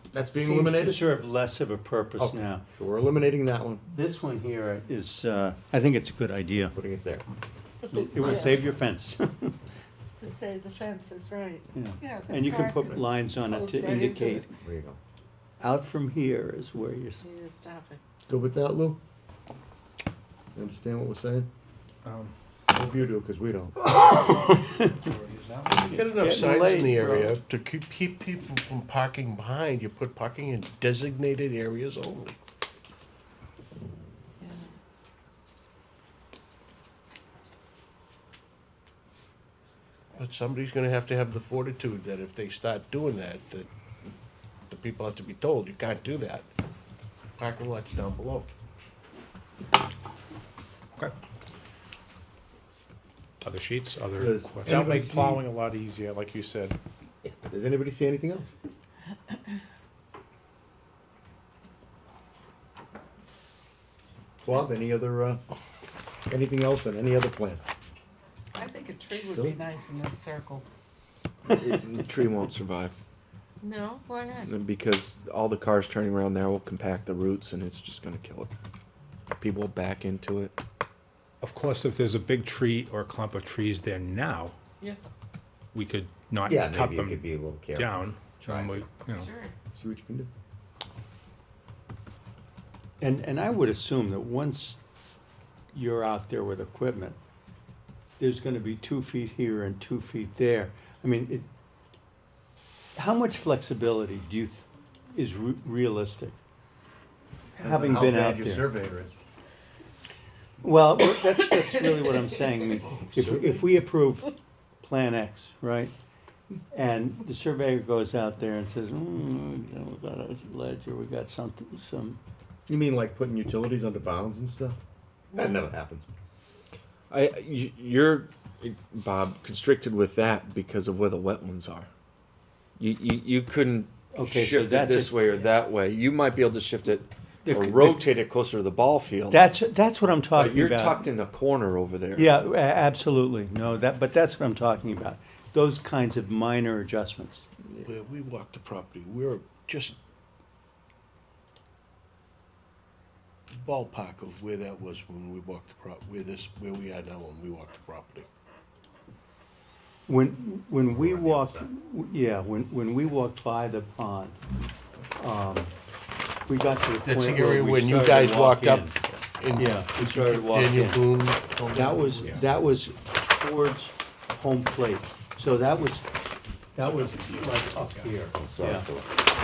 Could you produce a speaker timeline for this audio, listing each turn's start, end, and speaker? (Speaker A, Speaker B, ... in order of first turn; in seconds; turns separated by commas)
Speaker A: 0.1-1.1, Speaker B: 0.3-2.6, Speaker A: 2.2-3.8, Speaker B: 3.9-6.8, Speaker A: 6.8-7.2, Speaker C: 7.8-8.7, Speaker B: 7.9-9.6, Speaker A: 8.0-8.7, Speaker C: 10.2-14.4, Speaker B: 11.7-14.5, Speaker A: 14.6-15.0, Speaker B: 15.6-17.2, Speaker C: 17.2-18.0, Speaker A: 18.3-19.0, Speaker A: 20.6-21.5, Speaker D: 22.0-22.3, Speaker A: 22.7-23.8, Speaker B: 23.8-25.0, Speaker D: 24.8-26.1, Speaker E: 25.7-32.4, Speaker B: 26.0-27.4, Speaker C: 34.4-34.7, Speaker E: 40.2-43.7, Speaker E: 44.7-46.5, Speaker E: 47.4-48.5, Speaker D: 53.4-56.8, Speaker A: 54.1-55.4, Speaker A: 57.3-58.5, Speaker A: 64.4-65.4, Speaker A: 66.3-67.7, Speaker C: 68.6-70.7, Speaker A: 69.3-69.6, Speaker F: 71.5-73.0, Speaker C: 73.6-74.5, Speaker F: 74.4-78.5, Speaker F: 79.4-80.5, Speaker D: 81.4-84.5, Speaker D: 85.7-89.3, Speaker A: 86.5-88.8, Speaker C: 89.2-89.5, Speaker A: 89.7-90.3, Speaker B: 93.0-94.8, Speaker B: 95.7-97.2, Speaker B: 98.2-101.5, Speaker B: 103.0-106.4, Speaker B: 107.5-108.7, Speaker A: 107.6-109.1, Speaker B: 110.6-115.9, Speaker E: 112.8-113.7, Speaker B: 116.7-122.2, Speaker A: 122.7-124.8, Speaker A: 125.3-126.1, Speaker F: 127.1-131.9, Speaker F: 132.8-139.4, Speaker B: 134.1-135.2, Speaker B: 137.4-138.2, Speaker B: 139.3-141.1, Speaker F: 140.3-142.3, Speaker B: 142.2-147.4, Speaker E: 147.8-150.0, Speaker E: 153.6-158.3, Speaker B: 160.1-164.4, Speaker A: 161.0-161.7, Speaker B: 165.2-165.7, Speaker B: 166.5-169.0, Speaker E: 167.0-172.5, Speaker B: 169.5-171.1, Speaker B: 171.7-176.0, Speaker B: 176.8-178.9, Speaker D: 176.8-178.1, Speaker A: 178.4-179.1